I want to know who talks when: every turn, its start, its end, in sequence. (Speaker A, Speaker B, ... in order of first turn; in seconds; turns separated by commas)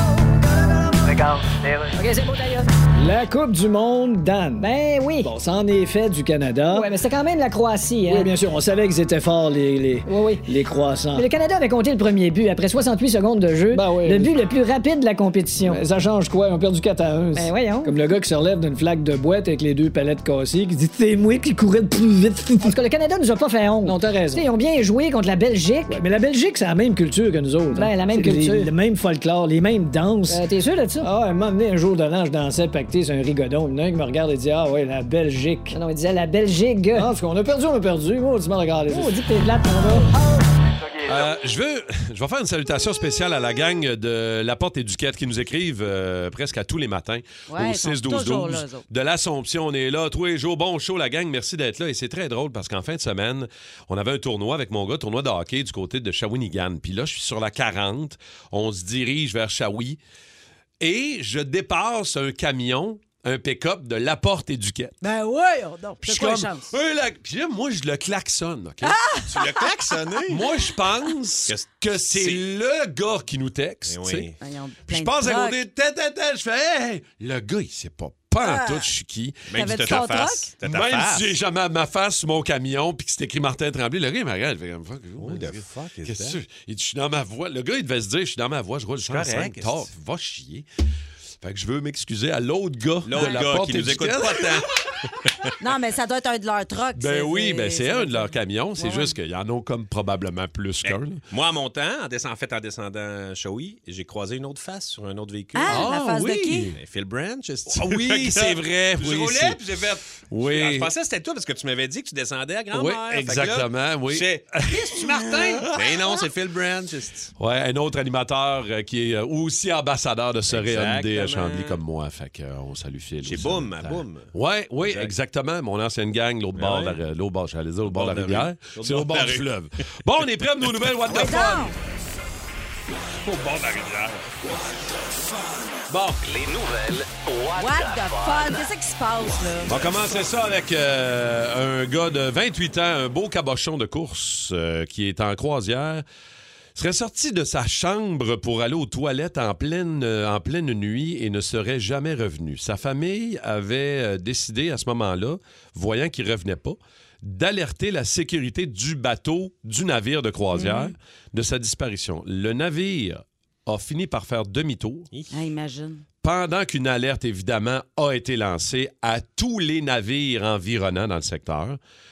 Speaker A: 1.9-2.7, Speaker B: 3.0-6.9, Speaker A: 4.6-5.3, Speaker A: 6.7-8.4, Speaker B: 8.1-11.3, Speaker A: 10.1-10.6, Speaker A: 11.1-15.8, Speaker B: 13.7-14.3, Speaker B: 15.6-22.8, Speaker A: 17.3-18.0, Speaker A: 22.6-26.0, Speaker B: 23.8-24.5, Speaker B: 25.9-30.4, Speaker A: 27.7-28.7, Speaker A: 30.3-31.1, Speaker B: 31.0-35.8, Speaker A: 35.7-37.1, Speaker B: 36.9-40.0, Speaker A: 38.9-40.1, Speaker C: 41.1-60.0, Speaker D: 47.5-48.8, Speaker C: 60.8-64.9, Speaker D: 65.0-66.7, Speaker C: 66.0-69.0, Speaker D: 68.8-69.7, Speaker E: 69.3-70.4, Speaker C: 70.3-74.3, Speaker E: 71.5-72.4, Speaker E: 73.9-74.4, Speaker D: 74.4-75.6, Speaker C: 74.9-80.0, Speaker D: 78.4-78.9, Speaker E: 79.5-81.3, Speaker D: 79.5-80.5, Speaker C: 80.6-90.6, Speaker E: 85.2-86.4, Speaker E: 89.0-89.9, Speaker C: 91.4-94.7, Speaker E: 93.0-94.7, Speaker D: 93.2-93.4, Speaker D: 95.6-99.1, Speaker C: 97.0-101.2, Speaker E: 100.8-105.9, Speaker D: 105.5-106.7, Speaker C: 105.7-106.8, Speaker E: 106.7-117.3, Speaker C: 107.7-109.6, Speaker C: 110.3-110.9, Speaker C: 112.7-115.7, Speaker C: 117.4-131.7, Speaker E: 120.5-121.8, Speaker E: 123.2-124.3, Speaker E: 124.8-125.1, Speaker E: 126.6-127.0, Speaker E: 127.9-129.4, Speaker D: 131.1-131.8, Speaker C: 133.2-133.8, Speaker E: 133.3-134.5, Speaker C: 135.9-136.2, Speaker F: 136.2-138.6, Speaker D: 137.6-139.8, Speaker E: 139.7-139.9, Speaker C: 139.7-146.0, Speaker C: 146.8-165.1, Speaker D: 160.5-160.9, Speaker D: 165.3-166.0, Speaker C: 166.2-171.8